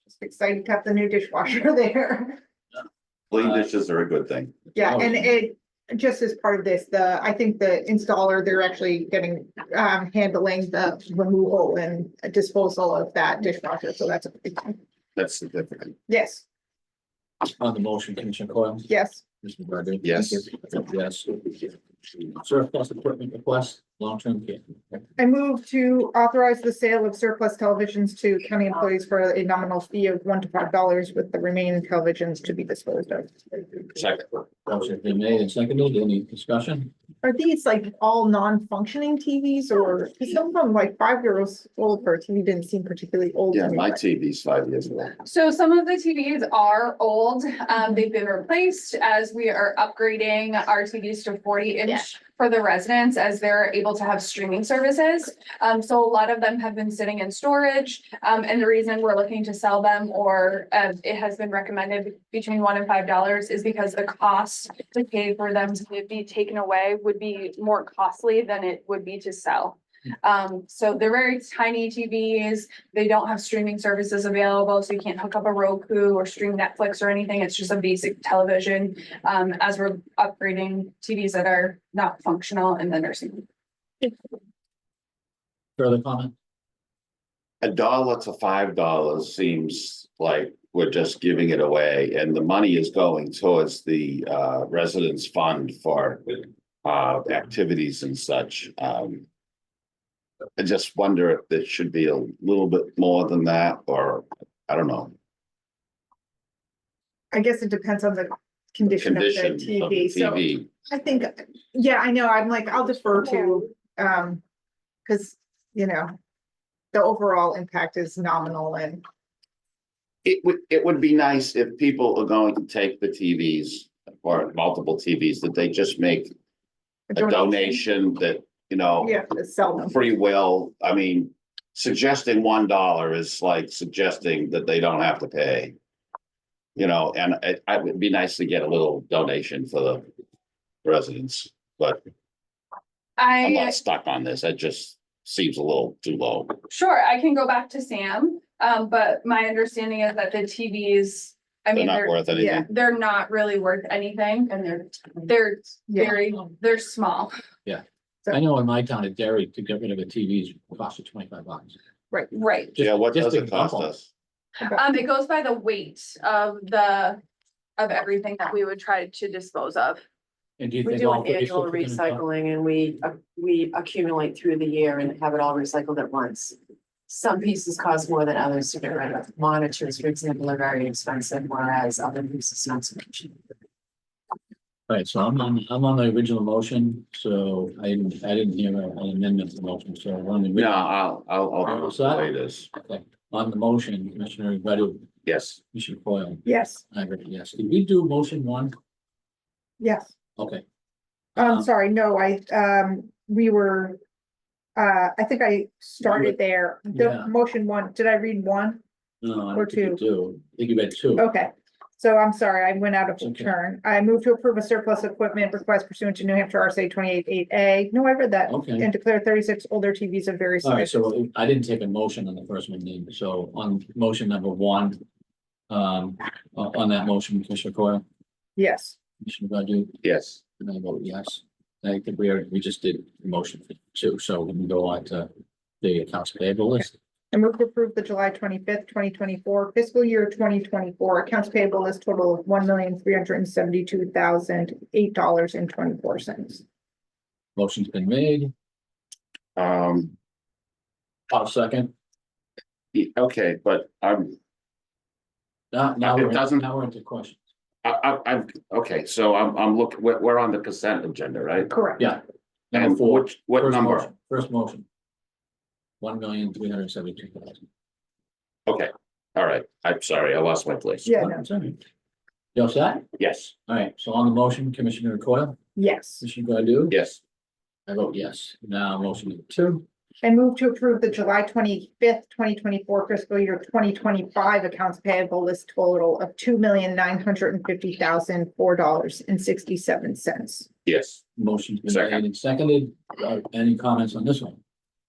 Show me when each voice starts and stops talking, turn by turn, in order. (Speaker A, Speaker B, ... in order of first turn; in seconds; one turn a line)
Speaker A: 0.1-2.4
Speaker B: 3.3-4.6
Speaker C: 3.4-3.6
Speaker A: 4.7-14.8
Speaker C: 4.8-5.2
Speaker B: 15.2-15.9
Speaker A: 16.1-16.4
Speaker C: 17.6-18.9
Speaker A: 18.9-19.2
Speaker C: 19.4-21.7
Speaker B: 20.0-20.4
Speaker C: 22.3-25.0
Speaker A: 25.2-33.9
Speaker B: 33.9-34.3
Speaker C: 34.6-36.9
Speaker A: 37.2-44.0
Speaker B: 43.5-45.1
Speaker D: 45.2-83.5
Speaker C: 85.8-86.3
Speaker B: 87.6-99.2
Speaker B: 100.6-105.1
Speaker A: 107.3-114.4
Speaker B: 109.0-110.7
Speaker A: 115.0-116.1
Speaker A: 116.9-119.0
Speaker B: 120.2-126.3
Speaker A: 127.1-127.8
Speaker B: 127.1-129.2
Speaker A: 129.0-130.1
Speaker B: 129.9-135.8
Speaker B: 136.8-140.1
Speaker B: 140.8-142.0
Speaker D: 143.2-143.8
Speaker B: 143.4-146.6
Speaker D: 146.7-157.3
Speaker B: 151.7-152.7
Speaker A: 152.3-152.7
Speaker A: 155.9-156.1
Speaker C: 157.6-161.8
Speaker D: 162.3-162.8
Speaker C: 162.8-163.9
Speaker B: 162.8-164.1
Speaker D: 164.6-167.2
Speaker D: 167.8-170.0
Speaker C: 170.6-172.2
Speaker E: 170.8-176.5
Speaker E: 177.1-183.3
Speaker C: 184.9-190.7
Speaker B: 190.5-192.7
Speaker C: 191.6-195.1
Speaker B: 195.2-195.6
Speaker C: 195.7-198.7
Speaker A: 196.4-196.8
Speaker A: 199.8-200.1
Speaker C: 200.4-200.6
Speaker A: 201.3-204.0
Speaker C: 201.4-201.7
Speaker A: 204.8-208.8
Speaker C: 206.1-206.3
Speaker C: 206.9-207.3
Speaker C: 209.2-211.2
Speaker A: 209.5-210.0
Speaker A: 211.2-221.1
Speaker C: 213.2-213.5
Speaker C: 218.5-218.9
Speaker C: 220.6-225.0
Speaker C: 225.7-228.0
Speaker A: 228.6-228.9
Speaker C: 229.2-230.0
Speaker B: 230.0-230.4
Speaker C: 230.6-235.3
Speaker C: 235.8-236.9
Speaker A: 237.3-246.6
Speaker C: 247.6-248.5
Speaker B: 249.6-250.1
Speaker C: 251.3-251.9
Speaker B: 252.9-254.4
Speaker C: 255.7-257.4
Speaker B: 256.0-256.6
Speaker B: 257.8-261.7
Speaker A: 261.7-262.1
Speaker C: 262.0-264.9
Speaker B: 262.7-264.1
Speaker C: 266.0-267.6
Speaker B: 268.7-271.1
Speaker A: 271.0-271.4
Speaker C: 271.1-271.8
Speaker C: 272.5-273.1
Speaker B: 273.2-273.5
Speaker C: 273.6-275.6
Speaker A: 275.8-276.2
Speaker C: 276.2-277.0
Speaker B: 276.9-277.2
Speaker C: 277.9-279.8
Speaker A: 280.2-290.7
Speaker B: 290.9-291.2
Speaker C: 291.4-294.6
Speaker B: 291.8-292.2